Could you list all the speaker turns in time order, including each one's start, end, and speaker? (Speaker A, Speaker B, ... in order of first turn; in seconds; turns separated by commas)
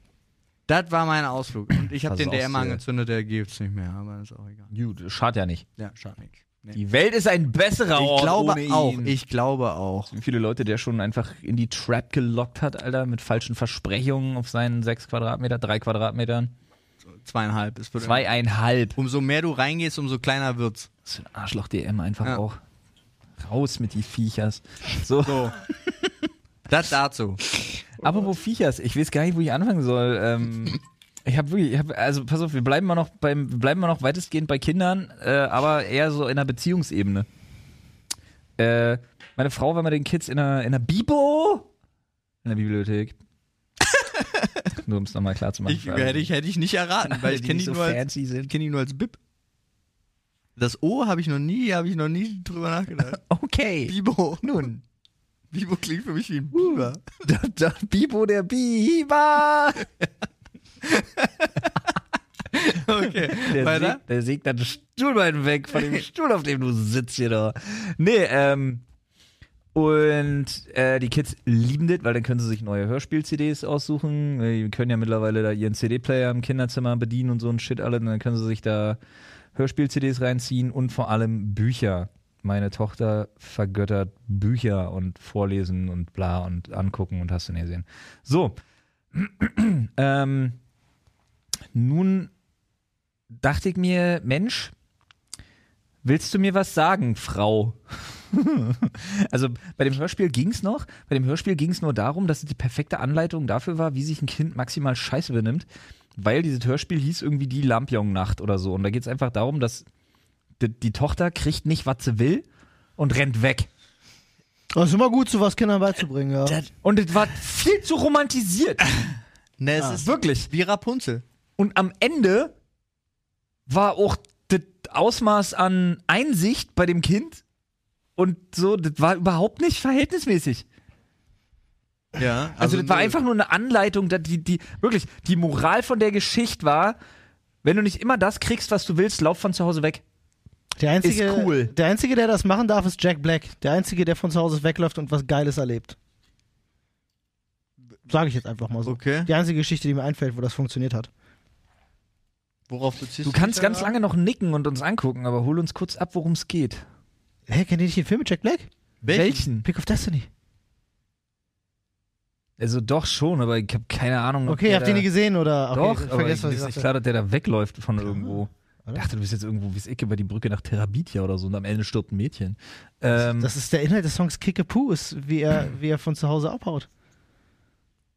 Speaker A: 0.7-4.7, Speaker B: 2.0-2.8, Speaker B: 4.7-5.7, Speaker A: 5.8-6.8, Speaker B: 6.7-9.2, Speaker A: 8.0-10.1, Speaker B: 10.1-16.5, Speaker A: 17.2-18.3, Speaker B: 18.0-19.0, Speaker A: 19.0-20.9, Speaker B: 21.1-22.6, Speaker B: 23.4-25.5, Speaker A: 25.2-25.6, Speaker A: 26.7-27.4, Speaker B: 28.0-37.3, Speaker B: 38.6-41.7, Speaker B: 42.4-43.2, Speaker A: 44.0-44.5, Speaker B: 44.8-46.3, Speaker A: 45.6-49.2, Speaker B: 47.1-48.5, Speaker A: 50.6-53.2, Speaker B: 53.1-54.7, Speaker A: 53.9-54.8, Speaker A: 55.5-57.0, Speaker B: 56.5-59.9, Speaker A: 61.0-61.2, Speaker A: 62.5-64.0, Speaker B: 63.2-68.8, Speaker B: 69.7-79.0, Speaker B: 79.5-88.5, Speaker B: 89.1-90.6, Speaker B: 91.7-92.3, Speaker B: 93.3-94.7, Speaker B: 96.0-109.8, Speaker B: 110.6-112.5, Speaker B: 113.0-113.7, Speaker C: 114.7-116.6, Speaker B: 116.8-118.8, Speaker A: 119.6-121.2, Speaker B: 119.9-120.5, Speaker B: 121.6-122.5, Speaker B: 123.7-127.4, Speaker B: 128.2-130.6, Speaker A: 132.1-133.1, Speaker B: 132.6-136.9, Speaker B: 137.6-140.0, Speaker C: 140.8-145.9, Speaker B: 141.0-141.7, Speaker C: 148.1-151.1, Speaker A: 148.8-149.3, Speaker A: 152.7-153.9, Speaker B: 153.2-156.8, Speaker C: 157.5-158.7, Speaker A: 159.0-159.4, Speaker B: 159.1-159.7, Speaker C: 159.6-160.3, Speaker B: 162.6-165.1, Speaker C: 164.4-166.9, Speaker B: 165.7-173.5, Speaker C: 168.0-169.0, Speaker C: 173.2-176.9